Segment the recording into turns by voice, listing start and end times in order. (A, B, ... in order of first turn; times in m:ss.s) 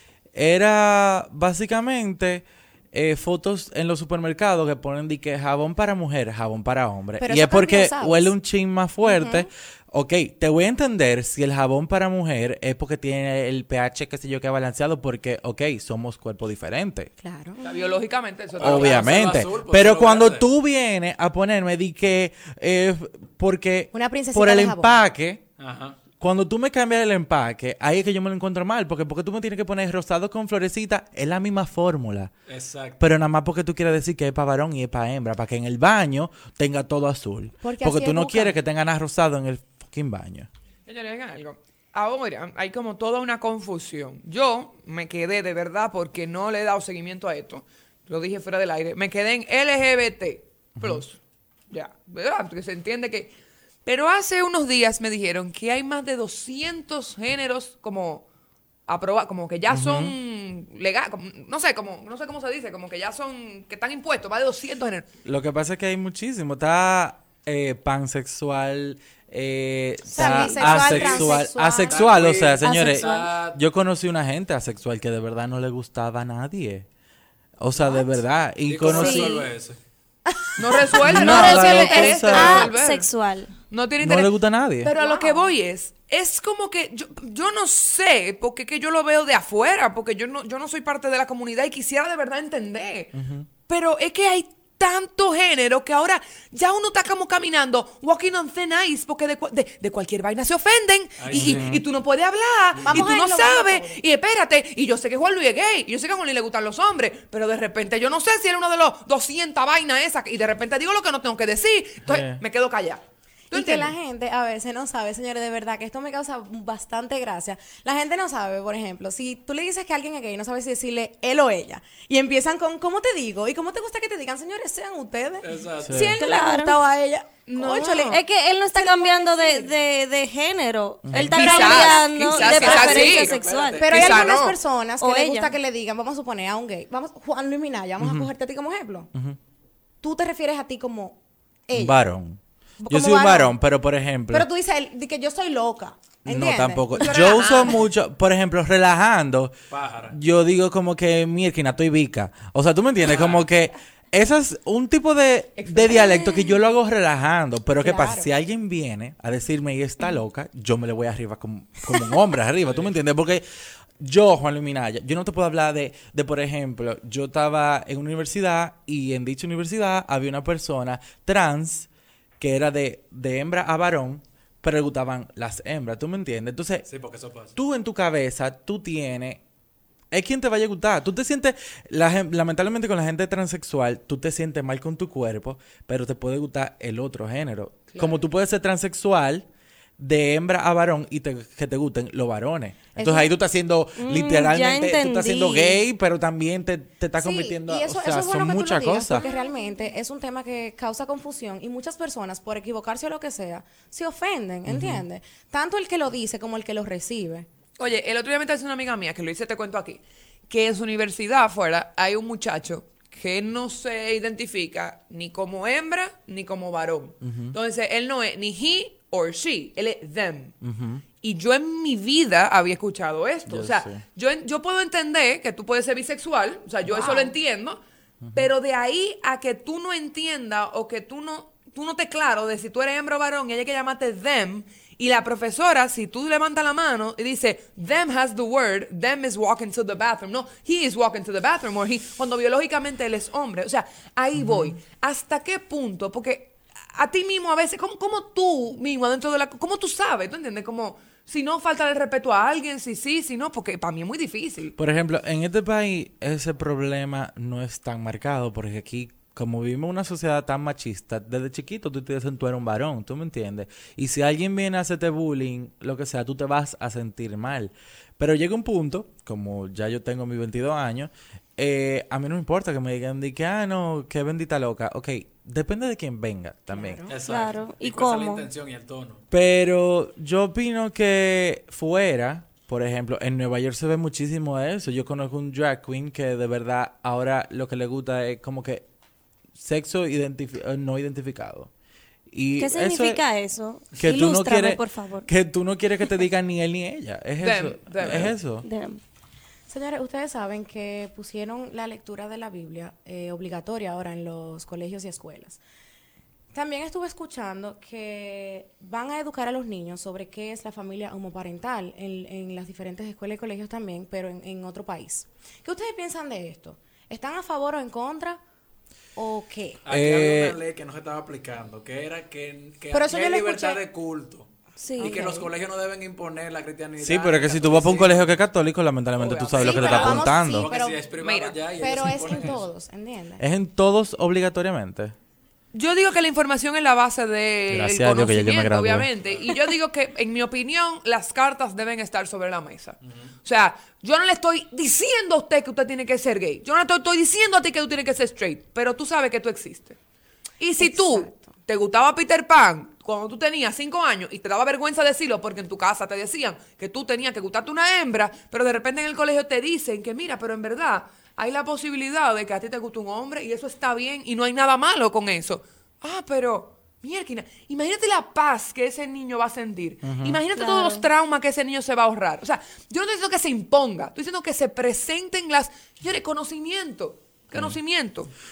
0:00.3-0:17.1 A
0:07.2-0:08.3 B
0:09.0-0:09.5 B
0:17.2-0:17.6 B
0:17.6-0:19.2 C
0:18.6-0:20.5 D
0:18.6-0:25.4 A
0:23.9-0:24.9 B
0:25.6-0:26.0 D
0:26.2-0:32.3 A
0:32.5-0:33.0 D
0:33.0-0:40.5 A
0:37.6-0:38.6 B
0:40.9-0:51.2 C
0:50.8-0:51.0 A
0:51.7-0:53.3 C
0:53.8-0:58.3 C
0:58.9-1:05.1 C
0:59.7-1:00.2 A
1:05.2-1:16.9 A
1:10.1-1:12.0 B
1:10.2-1:10.8 E
1:10.7-1:11.3 D
1:11.9-1:13.6 D
1:12.6-1:13.3 E
1:17.6-1:19.5 A
1:17.8-1:18.2 B
1:18.7-1:19.8 D
1:18.9-1:19.4 E
1:20.3-1:21.4 B
1:20.6-1:23.1 C
1:21.0-1:23.5 E
1:21.1-1:22.7 A
1:23.7-1:33.1 C
1:24.0-1:24.9 A
1:24.9-1:25.5 B
1:33.1-1:33.5 A
1:33.7-1:53.9 C
1:41.2-1:41.7 D
1:41.3-1:41.8 A
1:42.8-1:43.2 D
1:42.9-1:44.0 B
1:52.1-1:52.4 A
1:53.5-2:09.7 B
2:05.4-2:06.1 D
2:05.8-2:06.1 A
2:06.2-2:06.8 E
2:07.5-2:08.2 C
2:08.1-2:14.1 E
2:11.0-2:11.5 A
2:11.1-2:13.4 C
2:11.3-2:12.1 B
2:12.3-2:14.3 D
2:13.8-2:19.1 B
2:13.9-2:14.6 C
2:15.0-2:15.6 E
2:18.0-2:18.3 A
2:20.0-2:22.0 B
2:21.7-2:24.5 A
2:22.8-2:23.6 B
2:24.3-2:27.6 B
2:26.3-2:29.5 A
2:27.0-2:27.8 C
2:29.7-2:30.2 D
2:30.1-2:43.4 A
2:33.0-2:33.5 D
2:37.8-2:38.3 B
2:42.6-2:42.9 D
2:44.0-2:51.9 A
2:52.4-2:56.9 A
2:56.9-2:57.5 D
2:57.6-2:59.4 A
3:00.1-3:09.5 A
3:10.0-3:19.3 A
3:13.0-3:13.3 B
3:14.0-3:15.8 E
3:17.2-3:27.5 B
3:24.7-3:25.0 A
3:27.8-3:40.6 C
3:37.2-3:37.6 A
3:40.6-3:41.0 A
3:41.2-3:47.8 C
3:43.5-3:44.0 A
3:46.9-3:47.3 B
3:48.2-3:48.5 A
3:48.3-4:14.8 C
4:04.4-4:04.8 A
4:14.8-4:37.0 A
4:36.7-4:37.2 B
4:37.1-4:39.2 D
4:37.2-4:38.5 E
4:39.3-4:48.8 A
4:49.6-4:51.7 A
4:52.3-4:53.2 A
4:52.6-4:55.3 E
4:54.0-4:58.7 A
4:57.4-4:58.3 C
4:58.6-4:59.0 E
4:59.7-5:05.6 B
5:06.5-5:18.4 B
5:19.2-5:19.8 B
5:19.9-5:28.4 D
5:19.9-5:20.6 A
5:22.9-5:23.8 B
5:24.8-5:25.3 E
5:25.0-5:25.5 B
5:27.0-5:30.7 A
5:29.2-5:30.0 C
5:29.2-5:32.7 D
5:29.5-5:31.0 B
5:31.1-5:32.5 C
5:31.8-5:33.4 B
5:33.4-5:35.1 A
5:35.7-5:50.0 C
5:37.7-5:39.1 A
5:50.6-6:18.3 C
5:50.8-5:51.4 B
6:10.0-6:10.4 A
6:10.6-6:11.1 E